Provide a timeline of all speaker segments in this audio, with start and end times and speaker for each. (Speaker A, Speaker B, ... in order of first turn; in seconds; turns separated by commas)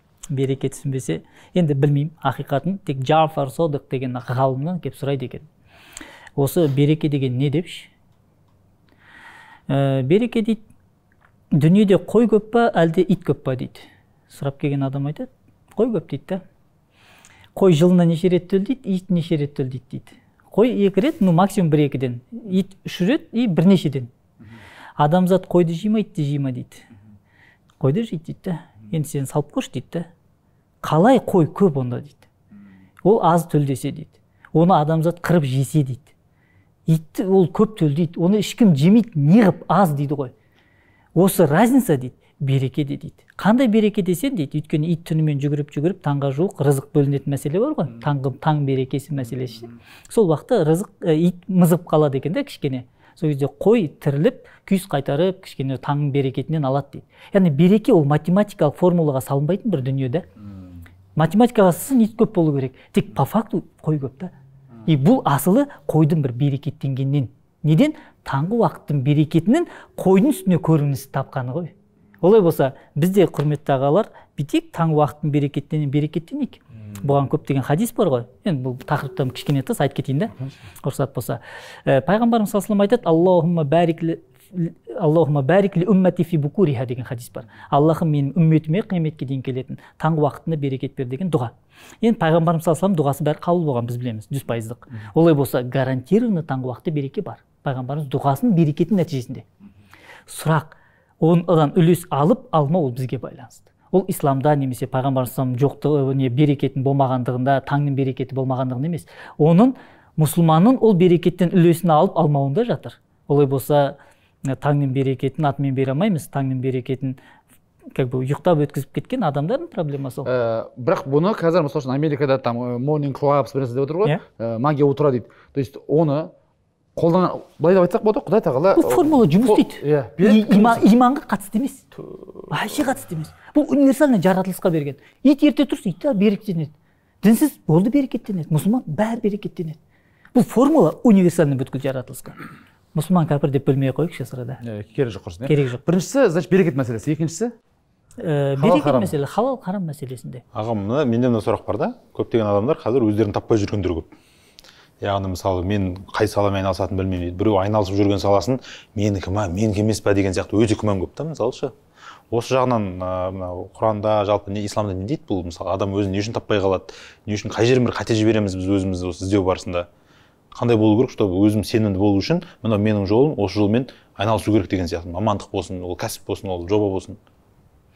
Speaker A: 0.3-5.5, Speaker A: 6.3-7.9, Speaker A: 9.7-10.6, Speaker A: 11.5-16.4, Speaker A: 17.5-24.1, Speaker A: 25.0-26.9, Speaker A: 27.8-30.1, Speaker A: 30.8-32.2, Speaker A: 33.0-36.1, Speaker A: 36.9-40.3, Speaker A: 41.1-60.2, Speaker A: 61.1-64.3, Speaker A: 64.8-99.4, Speaker A: 100.3-117.2, Speaker A: 117.9-120.3, Speaker B: 120.2-126.3, Speaker B: 127.0-130.8, Speaker A: 128.7-131.8, Speaker A: 132.5-139.8, Speaker A: 140.3-142.4, Speaker A: 142.9-144.6, Speaker B: 144.6-147.5, Speaker A: 145.5-145.8, Speaker A: 148.2-150.4, Speaker B: 148.6-149.1, Speaker C: 150.5-154.1, Speaker C: 155.0-161.7, Speaker C: 162.3-169.9, Speaker C: 170.5-177.2